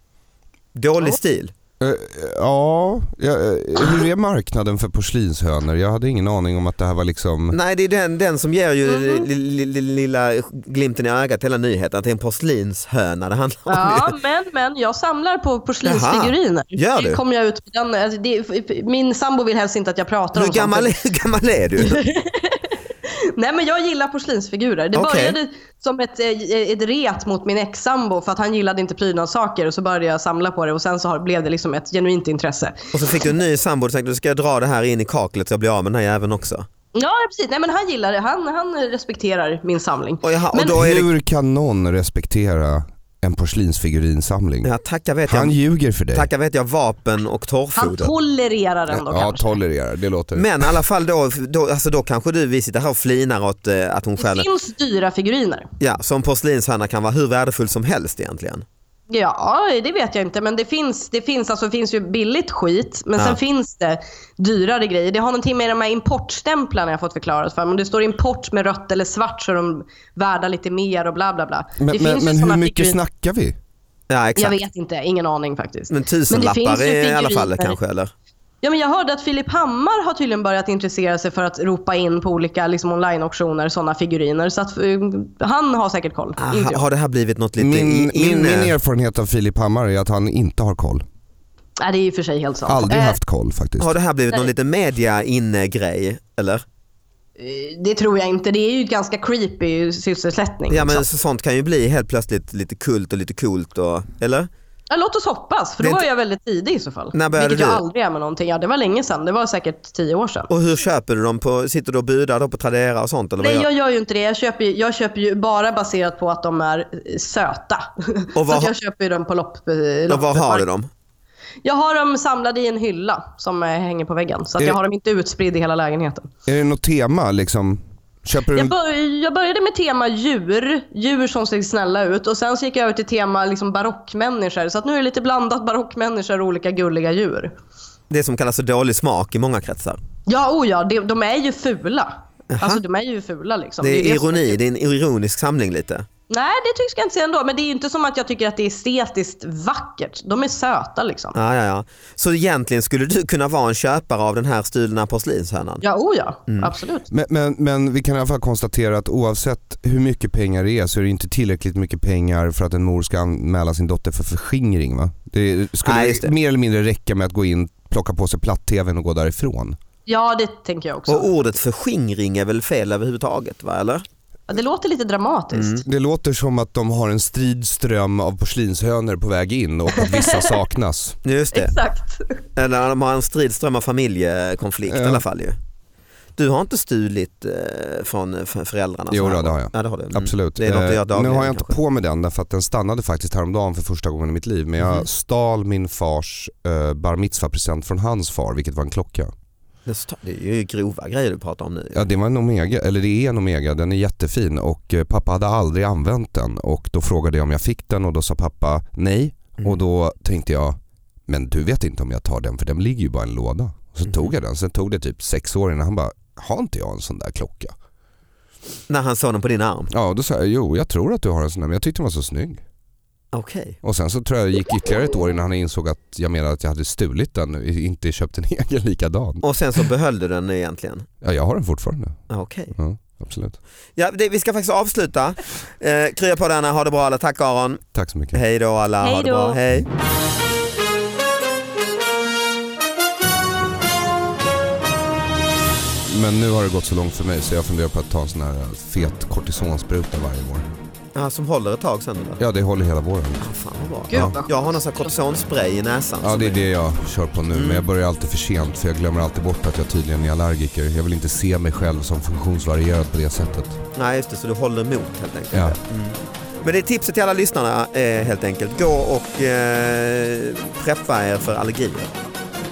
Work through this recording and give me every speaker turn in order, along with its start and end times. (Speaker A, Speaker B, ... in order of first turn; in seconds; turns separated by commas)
Speaker A: 0.7-1.5, Speaker B: 1.8-7.6, Speaker A: 7.5-14.1, Speaker C: 8.8-9.3, Speaker C: 13.7-20.9, Speaker A: 15.8-17.2, Speaker A: 20.3-22.0, Speaker C: 21.8-32.9, Speaker A: 24.9-25.4, Speaker A: 32.9-36.6, Speaker C: 36.9-40.8, Speaker A: 40.2-41.1, Speaker B: 40.6-44.7, Speaker A: 44.6-45.5, Speaker B: 45.3-46.3, Speaker A: 46.1-48.1, Speaker C: 47.8-49.6, Speaker B: 48.9-50.7, Speaker A: 50.3-54.5, Speaker C: 54.2-55.7, Speaker A: 55.8-58.6, Speaker C: 59.1-73.0, Speaker B: 71.8-73.6, Speaker A: 74.1-74.6, Speaker C: 74.3-77.8, Speaker A: 75.9-78.1, Speaker C: 78.6-86.8, Speaker A: 86.4-88.7, Speaker B: 87.6-91.0, Speaker C: 91.8-93.2, Speaker B: 92.7-93.9, Speaker A: 93.8-96.6, Speaker C: 97.4-101.0, Speaker A: 100.7-104.5, Speaker C: 104.9-110.5, Speaker A: 105.8-106.0, Speaker A: 107.1-107.8, Speaker A: 110.5-113.7, Speaker C: 113.4-120.6, Speaker A: 118.3-118.7, Speaker A: 120.1-120.9, Speaker C: 121.6-126.3, Speaker B: 126.5-128.7, Speaker C: 128.5-137.5, Speaker A: 138.1-140.0, Speaker C: 140.3-144.6, Speaker A: 142.5-142.8, Speaker A: 143.8-146.0, Speaker C: 146.3-151.4, Speaker A: 151.3-155.8, Speaker C: 155.8-157.1, Speaker B: 157.1-169.8, Speaker A: 165.8-166.3, Speaker C: 170.1-171.3, Speaker A: 171.1-174.0, Speaker C: 174.5-175.8, Speaker A: 175.5-175.8, Speaker B: 175.8-181.2, Speaker C: 180.0-180.5, Speaker A: 181.2-181.7, Speaker C: 181.5-182.4, Speaker A: 182.6-185.6, Speaker B: 184.9-185.2, Speaker A: 186.4-191.8, Speaker B: 189.1-199.3, Speaker A: 199.8-202.1, Speaker B: 201.9-210.8, Speaker B: 211.3-217.7, Speaker A: 214.1-214.3, Speaker A: 218.9-219.9, Speaker B: 219.9-222.6, Speaker A: 223.3-223.8, Speaker B: 223.8-229.4, Speaker A: 229.4-231.1, Speaker B: 231.2-232.2, Speaker A: 232.3-232.7, Speaker B: 232.7-233.6, Speaker A: 234.0-239.9, Speaker B: 237.9-238.4, Speaker C: 239.0-239.6, Speaker B: 246.0-250.7, Speaker A: 251.1-252.4, Speaker B: 252.4-253.4, Speaker A: 253.4-256.6, Speaker C: 254.1-255.1, Speaker B: 256.2-263.8, Speaker A: 257.5-257.8, Speaker A: 263.9-272.1